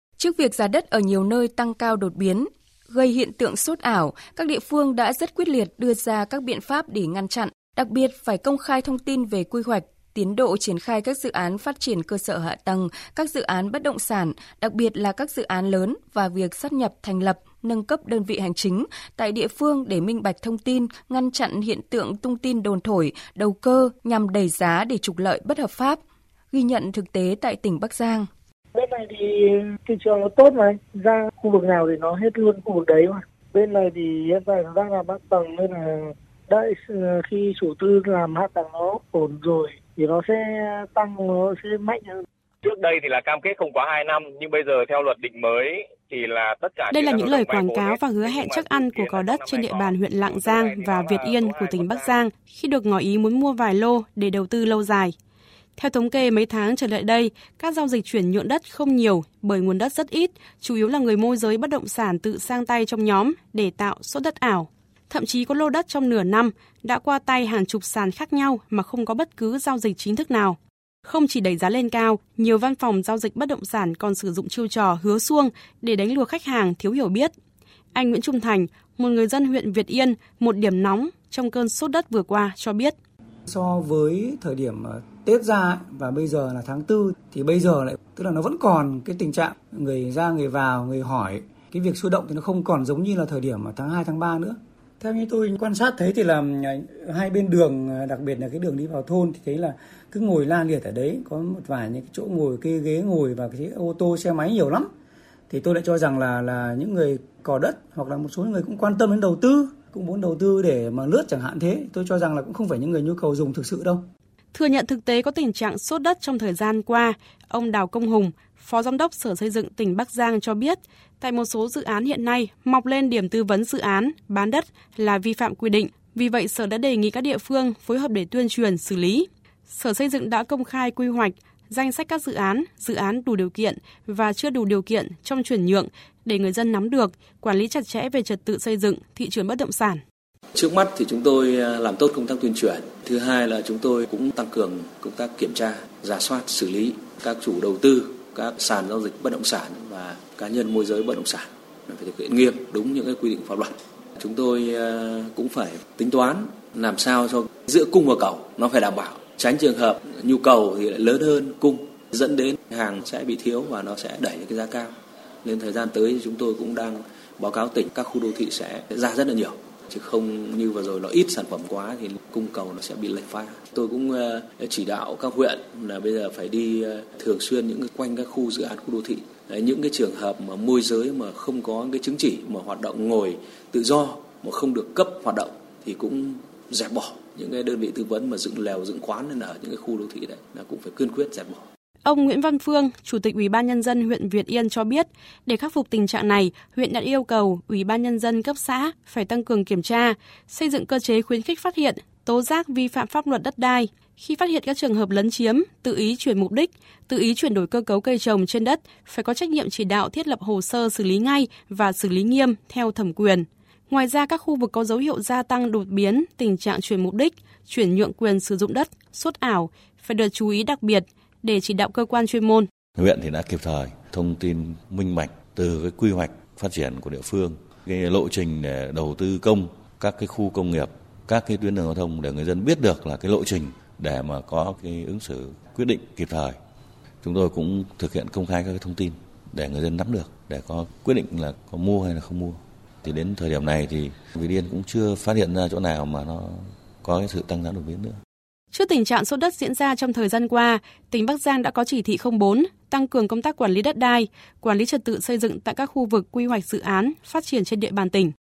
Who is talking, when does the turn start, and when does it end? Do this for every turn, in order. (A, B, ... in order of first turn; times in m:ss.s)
0:00.2-0:26.0 A
0:26.5-0:28.3 A
0:28.7-0:29.2 B
0:29.9-0:35.7 B
0:37.3-0:40.3 B
0:41.0-0:42.1 B
0:42.6-0:52.2 C
0:46.9-0:55.1 D
0:55.8-1:17.3 D
1:17.9-1:22.9 D
1:23.5-1:44.9 E
1:45.5-1:54.0 E
1:54.5-2:20.0 D
2:20.5-3:11.7 F
3:12.0-3:42.7 D
3:43.0-3:56.6 G
3:57.2-4:08.2 G
4:08.7-4:18.3 D